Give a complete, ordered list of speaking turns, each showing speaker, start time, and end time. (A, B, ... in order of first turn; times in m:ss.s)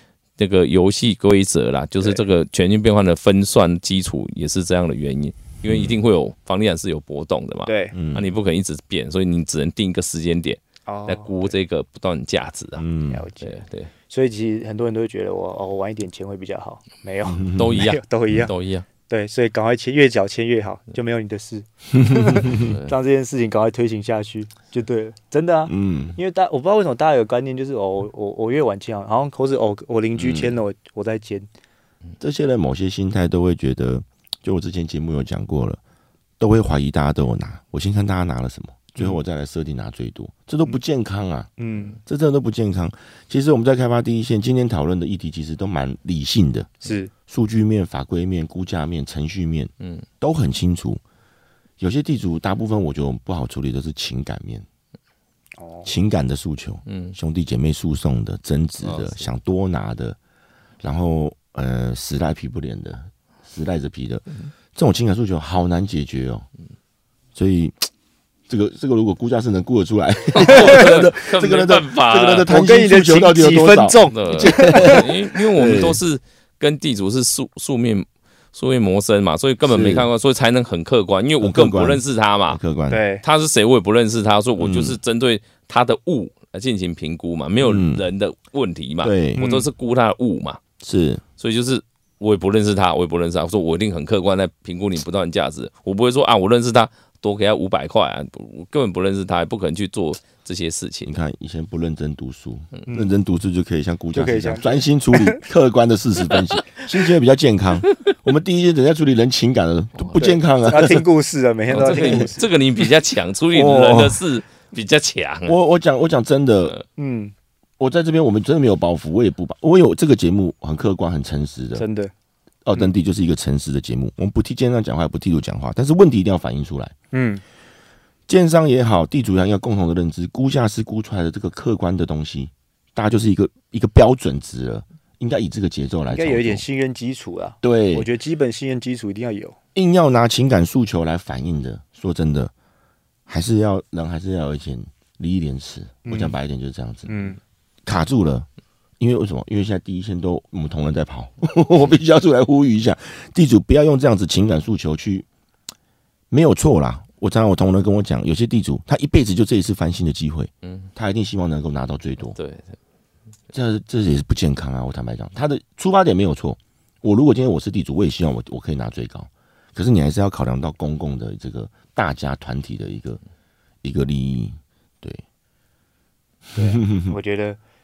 0:00.4-0:12.8 A
0:05.7-0:06.0 B
0:07.7-0:08.0 C
0:07.9-0:08.3 B
0:10.9-0:11.5 C
0:12.8-0:13.2 B
0:13.1-0:13.6 C
0:13.4-0:13.9 A
0:14.1-0:18.5 C
0:17.3-0:17.8 B
0:17.6-0:18.9 A
0:19.1-0:31.5 C
0:22.0-0:22.7 B
0:25.7-0:26.2 B
0:30.2-0:30.6 B
0:32.2-0:35.8 B
0:36.4-0:41.5 B
0:41.6-0:42.0 C
0:42.1-0:51.0 B
0:46.8-0:47.1 C
0:49.8-0:50.0 A
0:51.8-0:54.7 B
0:55.6-0:55.9 C
0:55.8-1:00.2 B
0:56.9-0:57.2 A
0:58.8-0:59.2 A
1:00.8-1:06.5 B
1:07.4-1:07.8 B
1:08.5-1:16.0 B
1:10.4-1:12.5 A
1:12.5-1:15.1 C
1:14.1-1:22.6 A
1:19.7-1:20.1 B
1:21.4-1:23.0 B
1:22.9-1:23.2 C
1:23.2-1:30.6 A
1:24.6-1:25.0 B
1:27.6-1:28.0 B
1:29.0-1:29.4 B
1:29.4-1:29.7 C
1:30.8-1:31.2 B
1:31.4-1:41.1 A
1:41.0-1:51.0 B
1:42.9-1:43.1 C
1:44.1-1:45.4 C
1:50.2-1:52.5 C
1:51.7-1:55.6 A
1:51.9-1:52.3 B
1:53.5-1:54.2 B
1:55.5-1:56.8 B
1:57.0-1:57.3 C
1:57.8-2:01.8 B
2:01.8-2:02.1 C
2:02.6-2:06.9 B
2:07.1-2:07.4 C
2:08.3-2:16.6 B
2:16.1-2:19.6 C
2:17.6-2:18.1 B
2:19.7-2:22.5 B
2:23.3-2:27.1 B
2:26.0-2:26.3 C
2:27.1-2:27.4 C
2:27.9-2:28.4 B
2:29.0-2:35.3 B
2:36.3-2:42.4 B
2:40.6-2:40.9 A
2:42.4-2:42.8 A
2:43.5-2:53.2 B
2:53.8-2:55.2 B
2:56.5-2:57.1 B
2:56.6-2:57.6 C